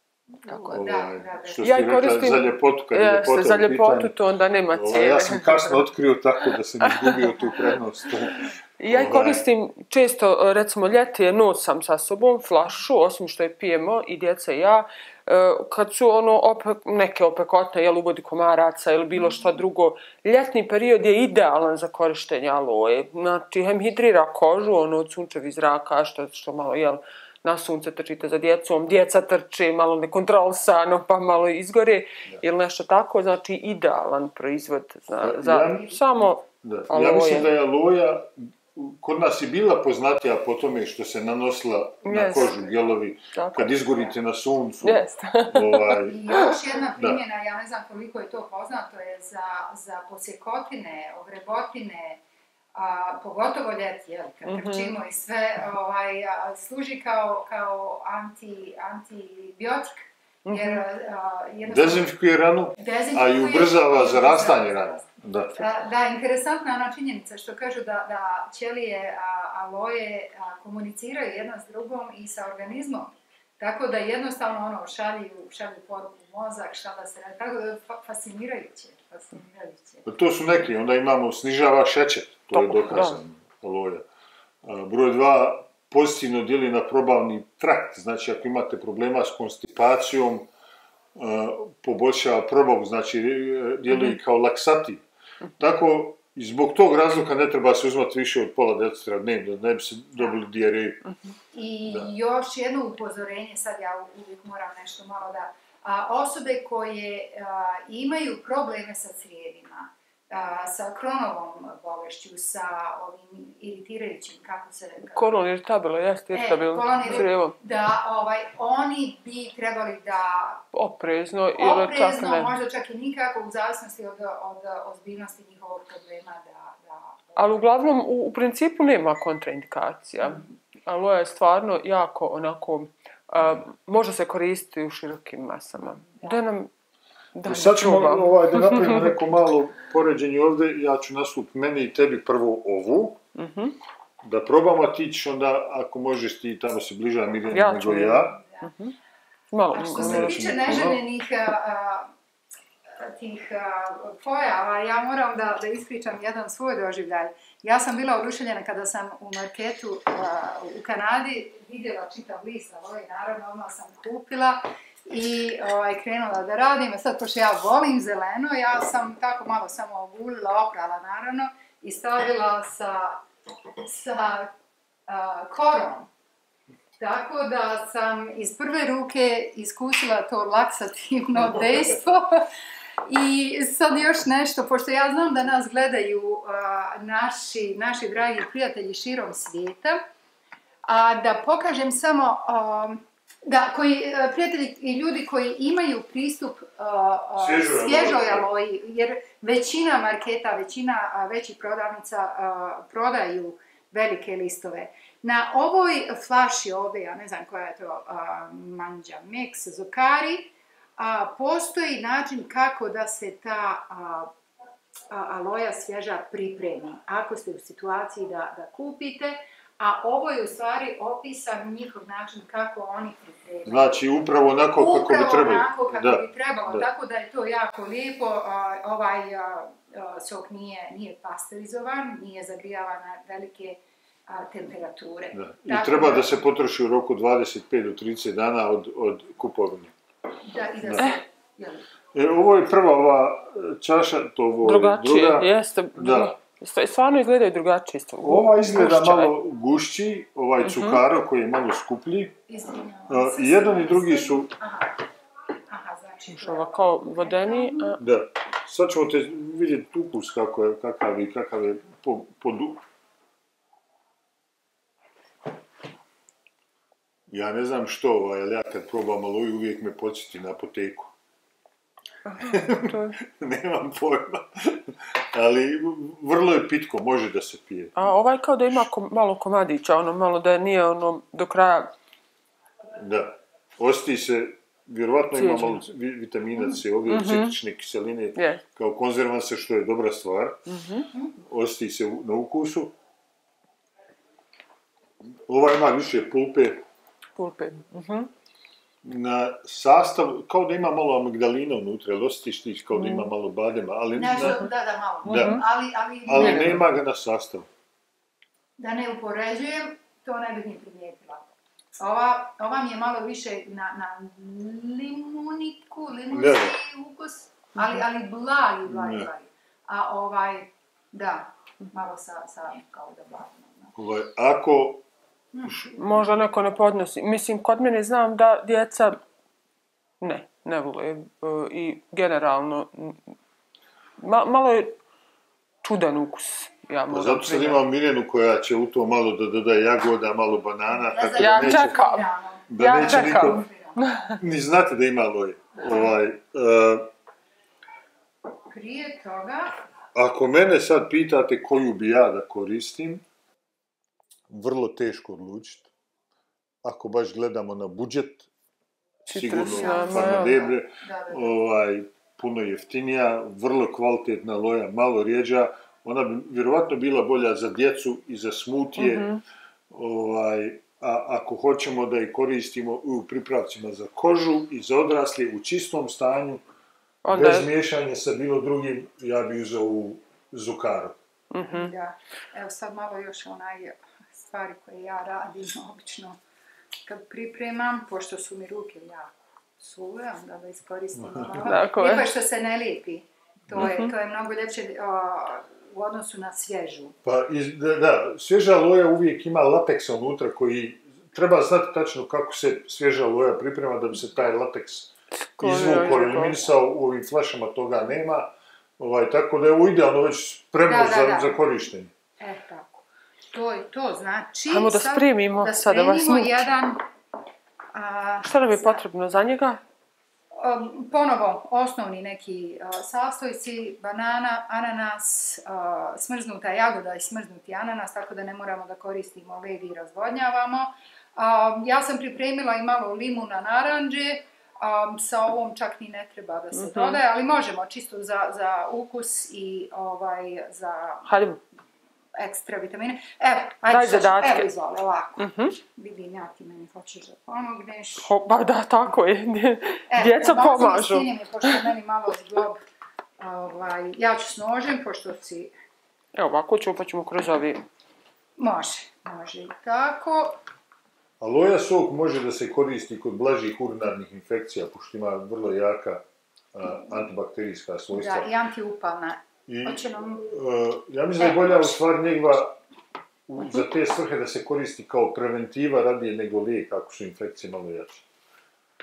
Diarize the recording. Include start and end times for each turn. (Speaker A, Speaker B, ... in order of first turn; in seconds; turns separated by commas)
Speaker A: 0.5-0.7, Speaker B: 0.7-1.7, Speaker C: 0.7-4.1, Speaker A: 1.6-5.8, Speaker C: 4.7-9.4, Speaker A: 6.8-7.8, Speaker A: 8.8-37.5, Speaker C: 35.2-36.0, Speaker C: 36.6-46.2, Speaker A: 42.0-42.6, Speaker B: 42.4-42.8, Speaker A: 43.3-43.8, Speaker A: 44.8-46.5, Speaker B: 46.0-52.2, Speaker B: 52.8-62.1, Speaker A: 54.5-55.0, Speaker A: 60.5-60.8, Speaker C: 61.6-65.6, Speaker B: 62.8-80.1, Speaker C: 80.1-84.1, Speaker A: 82.5-83.2, Speaker C: 84.6-90.5, Speaker C: 91.2-95.0, Speaker A: 93.9-94.2, Speaker C: 95.6-101.0, Speaker B: 101.5-115.4, Speaker C: 101.9-102.1, Speaker A: 115.2-117.6, Speaker B: 116.3-120.6, Speaker A: 120.7-122.6, Speaker B: 121.6-127.6, Speaker A: 127.4-136.7, Speaker B: 130.2-130.5, Speaker C: 133.4-133.6, Speaker A: 137.3-139.2, Speaker C: 137.4-143.2, Speaker A: 143.4-143.8, Speaker C: 144.2-148.4, Speaker A: 147.5-148.9, Speaker A: 149.5-150.5, Speaker B: 149.7-152.1, Speaker C: 150.0-151.0, Speaker B: 152.9-173.2, Speaker B: 173.8-174.5, Speaker B: 175.1-176.1, Speaker B: 177.0-182.5, Speaker B: 183.1-190.0, Speaker B: 190.8-214.3, Speaker C: 197.4-198.4, Speaker B: 215.1-223.9, Speaker C: 223.7-226.9, Speaker B: 224.7-236.3, Speaker C: 235.3-239.9, Speaker B: 240.4-241.8, Speaker C: 240.8-241.1, Speaker C: 242.1-246.3, Speaker A: 244.6-249.4, Speaker C: 248.2-252.3, Speaker A: 250.6-251.0, Speaker B: 252.5-255.0, Speaker C: 253.1-254.5, Speaker B: 255.7-258.0, Speaker A: 256.3-258.0, Speaker C: 258.0-262.8, Speaker C: 267.3-271.1, Speaker A: 272.2-273.2, Speaker C: 272.4-277.9, Speaker A: 278.0-281.9, Speaker C: 283.0-290.6, Speaker A: 285.3-285.9, Speaker A: 287.1-287.6, Speaker A: 288.4-288.6, Speaker A: 290.7-291.1, Speaker C: 291.4-292.9, Speaker C: 295.5-296.8, Speaker A: 297.4-298.3, Speaker C: 299.0-304.6, Speaker A: 302.9-303.3, Speaker B: 304.1-306.8, Speaker C: 305.2-305.6, Speaker A: 305.3-305.6, Speaker C: 306.2-307.7, Speaker A: 306.3-306.8, Speaker B: 308.8-311.4, Speaker B: 312.0-323.9, Speaker C: 316.3-316.8, Speaker C: 318.9-319.3, Speaker C: 324.0-325.1, Speaker B: 325.5-325.9, Speaker A: 325.9-329.2, Speaker A: 330.2-333.2, Speaker A: 334.2-334.9, Speaker A: 335.8-337.8, Speaker C: 337.1-342.0, Speaker B: 340.9-344.1, Speaker A: 341.4-344.4, Speaker C: 342.7-343.6, Speaker C: 344.4-347.1, Speaker B: 348.7-349.8, Speaker C: 350.1-353.2, Speaker C: 354.5-355.9, Speaker C: 356.8-358.5, Speaker A: 359.3-360.6, Speaker C: 359.3-369.3, Speaker B: 359.5-361.6, Speaker A: 369.0-369.4, Speaker C: 369.9-376.6, Speaker A: 377.2-377.7, Speaker C: 377.3-381.2, Speaker A: 381.5-381.9, Speaker B: 381.7-386.4, Speaker B: 387.1-397.2, Speaker C: 391.2-391.5, Speaker A: 391.6-392.3, Speaker A: 393.8-394.1, Speaker C: 397.2-412.1, Speaker A: 405.3-406.7, Speaker B: 410.8-411.6, Speaker B: 412.4-417.0, Speaker A: 414.7-416.7, Speaker B: 417.9-419.0, Speaker A: 418.4-419.8, Speaker B: 420.6-441.3, Speaker A: 436.7-437.2, Speaker A: 441.2-441.6, Speaker B: 442.4-448.3, Speaker A: 443.9-444.7, Speaker A: 445.4-445.8, Speaker A: 448.2-451.9, Speaker B: 450.1-452.8, Speaker B: 453.4-455.7, Speaker A: 456.4-457.8, Speaker B: 458.6-460.6, Speaker C: 461.4-468.5, Speaker B: 468.1-470.5, Speaker C: 469.7-472.8, Speaker B: 471.4-472.0, Speaker C: 473.5-478.2